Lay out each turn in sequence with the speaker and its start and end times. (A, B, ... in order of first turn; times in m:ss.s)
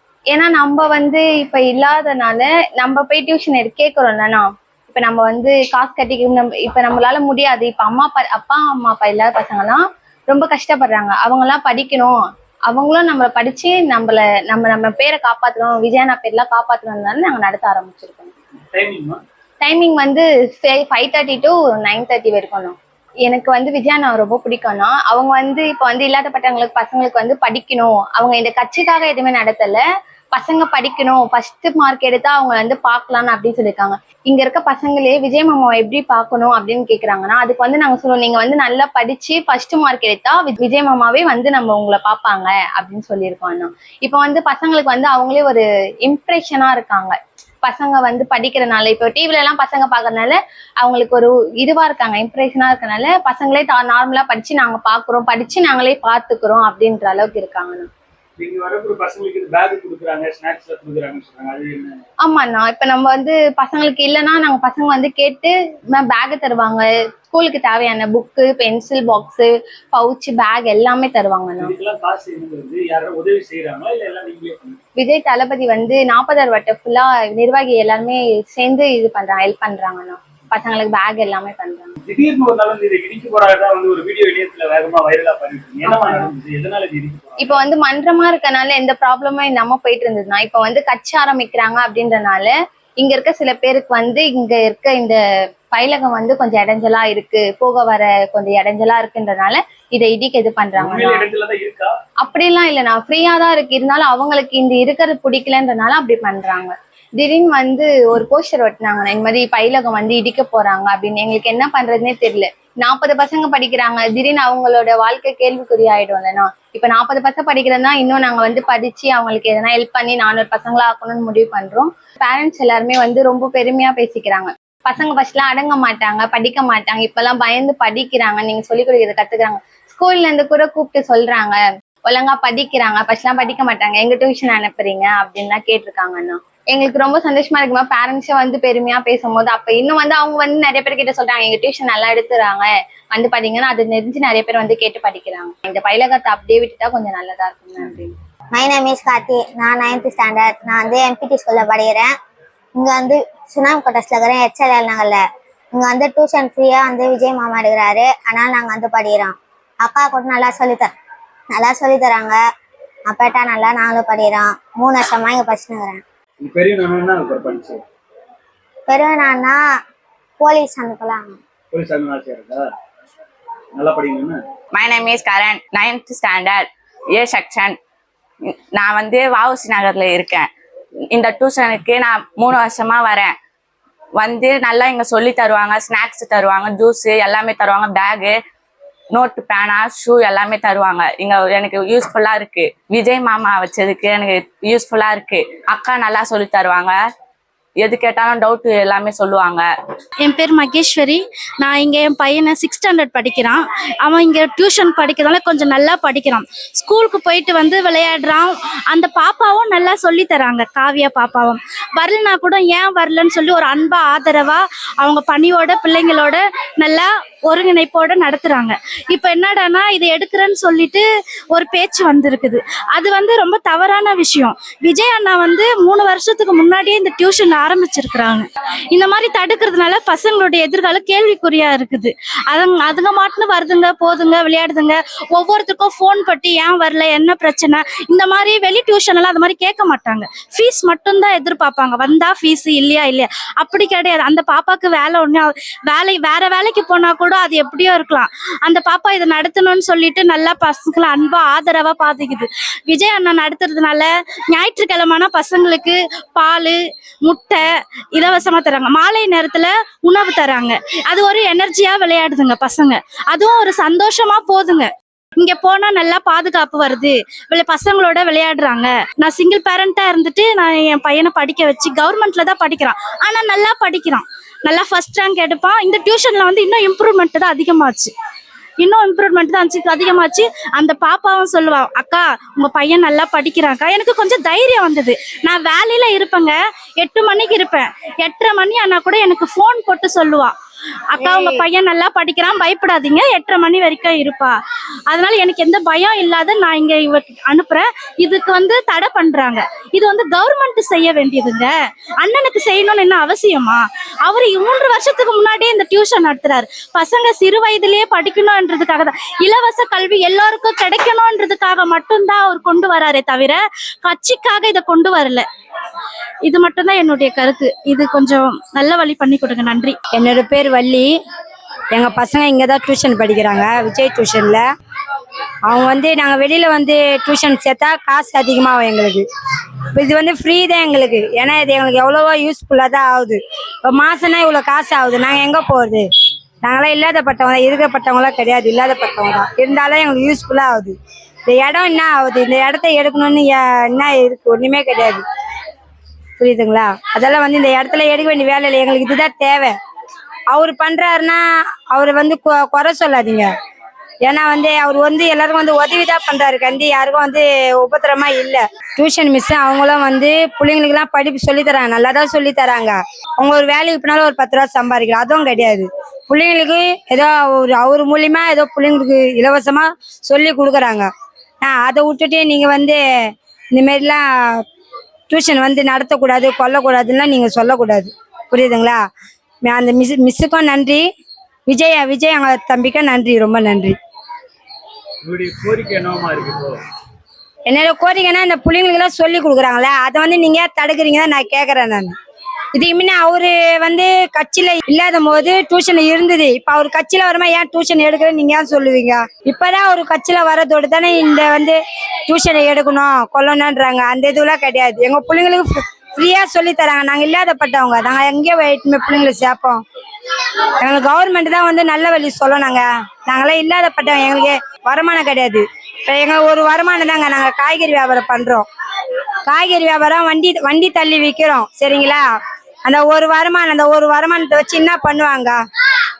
0:00.3-0:12.2 A
0:12.7-0:18.3 A
0:18.6-0:19.2 B
0:19.6-0:22.8 A
0:23.3-0:29.8 A
0:30.3-0:57.9 A
0:58.4-1:02.0 B
1:02.2-1:11.7 A
1:11.6-1:14.8 B
1:15.0-1:21.9 A
1:22.0-1:27.6 B
1:25.9-1:26.3 A
1:27.4-1:35.2 A
1:35.7-1:41.3 A
1:40.8-1:41.9 B
1:42.2-2:28.1 A
2:28.5-2:32.1 C
2:32.8-2:40.9 C
2:41.5-2:42.4 C
2:43.1-2:46.0 C
2:46.4-2:47.8 B
2:48.9-2:49.6 C
2:50.4-2:51.4 C
2:51.7-2:52.7 B
2:53.7-2:54.4 B
2:54.8-2:56.6 D
2:57.2-2:57.7 D
2:58.8-3:00.4 D
3:01.1-3:03.3 D
3:04.2-3:08.3 D
3:09.2-3:16.9 D
3:17.8-3:19.6 D
3:20.2-4:17.6 E
4:18.1-4:38.1 E
4:38.8-4:50.5 E
4:51.1-4:54.6 E
4:55.1-5:15.4 E
5:16.4-5:20.0 E
5:20.2-5:21.1 F
5:21.9-5:24.6 F
5:25.7-5:29.2 F
5:29.9-5:36.0 F
5:36.6-5:40.9 F
5:41.5-5:45.2 F
5:46.4-5:49.7 F
5:50.5-5:51.4 F
5:51.9-5:53.5 F
5:54.2-6:11.1 F
6:11.6-6:13.0 F
6:13.7-6:14.2 F
6:15.3-6:19.0 F
6:19.6-6:21.0 F
6:21.7-6:23.9 F
6:25.2-6:26.8 B
6:27.7-6:32.1 F
6:32.7-6:49.8 F
6:50.8-6:58.6 F
6:59.4-7:02.2 F
7:02.8-7:05.6 F